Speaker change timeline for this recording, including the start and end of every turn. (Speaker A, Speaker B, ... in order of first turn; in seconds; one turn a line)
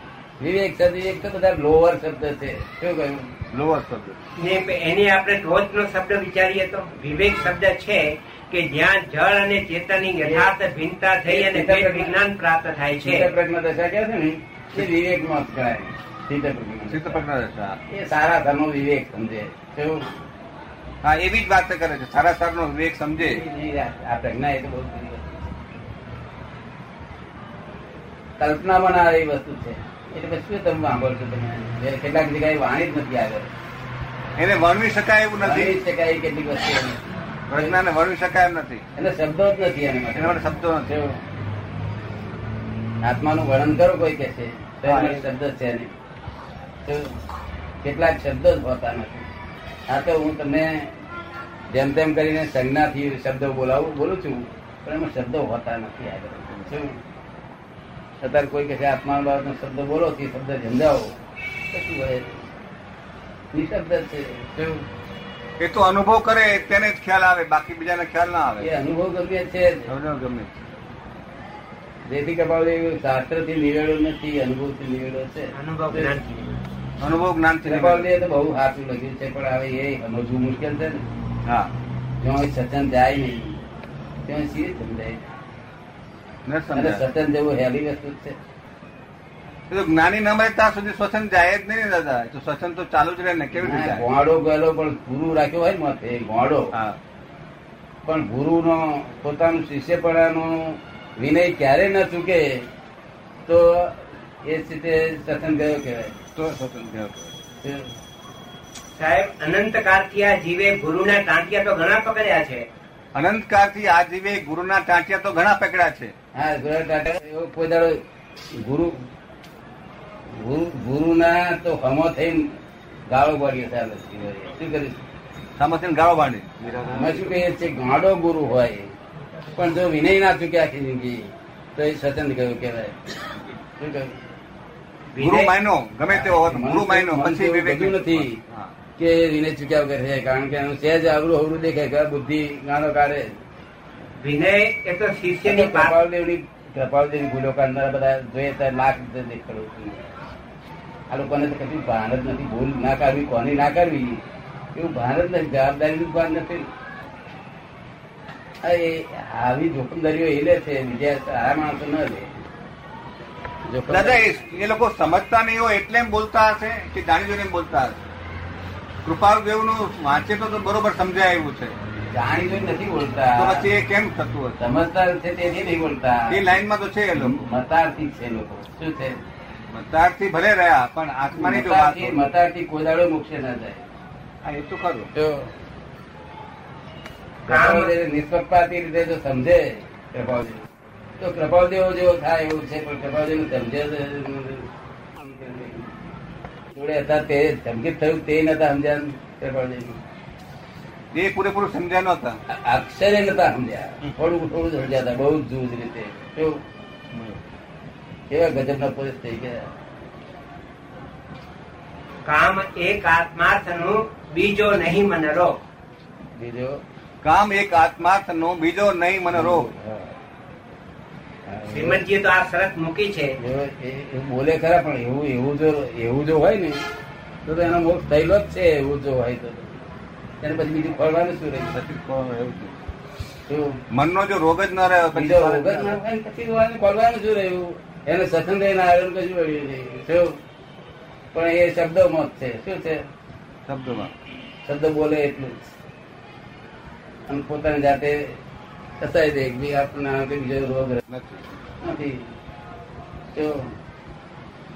Speaker A: 0.4-3.3
Speaker B: 3.5-4.2
Speaker C: 4.4-13.3
Speaker A: 10.2-10.5
Speaker A: 11.2-12.1
Speaker A: 13.0-17.2
Speaker B: 16.9-17.8
Speaker A: 17.9-20.2
Speaker B: 21.0-23.4
Speaker A: 23.2-25.5
Speaker A: 28.4-33.5
Speaker B: 34.4-35.8
Speaker A: 35.4-37.0
Speaker B: 37.5-38.8
Speaker A: 39.0-41.2
Speaker B: 40.1-41.0
Speaker A: 43.0-45.9
Speaker B: 44.9-45.2
Speaker A: 46.9-47.2
Speaker A: 47.8-49.3
Speaker A: 49.9-50.9
Speaker A: 51.7-57.0
Speaker A: 58.2-61.2
Speaker A: 61.7-62.5
Speaker A: 63.5-64.9
Speaker B: 65.6-68.7
Speaker A: 68.6-69.9
Speaker B: 69.9-70.6
Speaker A: 72.0-76.1
Speaker C: 75.5-76.7
Speaker B: 77.0-78.1
Speaker A: 77.7-81.0
Speaker B: 81.5-81.7
Speaker A: 82.2-83.6
Speaker A: 84.3-85.3
Speaker B: 86.5-87.0
Speaker A: 86.8-88.4
Speaker B: 89.7-94.1
Speaker A: 93.6-96.7
Speaker B: 96.7-97.0
Speaker A: 98.1-102.7
Speaker A: 103.5-106.2
Speaker B: 106.4-107.3
Speaker A: 107.6-107.9
Speaker C: 109.0-112.7
Speaker B: 113.2-116.1
Speaker A: 116.3-118.0
Speaker A: 118.6-119.0
Speaker A: 120.3-122.5
Speaker A: 123.1-125.0
Speaker B: 125.6-127.4
Speaker A: 126.7-128.9
Speaker A: 129.5-133.2
Speaker A: 133.8-134.2
Speaker C: 135.1-135.5
Speaker B: 135.2-138.7
Speaker A: 136.1-138.4
Speaker A: 139.0-143.4
Speaker C: 144.2-145.9
Speaker A: 145.4-150.1
Speaker A: 151.1-154.2
Speaker A: 154.7-156.7
Speaker A: 158.6-162.4
Speaker A: 163.7-164.4
Speaker B: 163.9-168.0
Speaker B: 169.0-171.8
Speaker A: 172.1-173.7
Speaker B: 173.4-174.7
Speaker A: 174.6-176.4
Speaker B: 176.3-177.5
Speaker A: 177.2-179.2
Speaker B: 179.7-182.2
Speaker A: 181.3-183.9
Speaker B: 184.4-185.1
Speaker A: 185.2-185.5
Speaker C: 187.5-187.9
Speaker A: 187.5-190.7
Speaker A: 191.2-195.9
Speaker A: 196.7-200.0
Speaker B: 201.1-202.4
Speaker A: 202.5-206.6
Speaker B: 207.1-207.4
Speaker A: 208.3-209.7
Speaker C: 212.2-215.6
Speaker A: 216.3-216.8
Speaker B: 217.2-219.7
Speaker A: 219.3-220.2
Speaker A: 221.5-222.0
Speaker C: 221.7-223.4
Speaker A: 223.4-226.8
Speaker A: 227.4-229.8
Speaker A: 230.4-231.8
Speaker B: 231.7-232.9
Speaker A: 233.5-233.8
Speaker B: 233.9-236.0
Speaker A: 235.1-240.4
Speaker A: 241.3-243.1
Speaker B: 243.7-244.1
Speaker A: 244.7-245.7
Speaker A: 247.3-248.4
Speaker A: 249.0-251.0
Speaker B: 251.1-251.6
Speaker A: 251.8-252.3
Speaker A: 253.3-253.7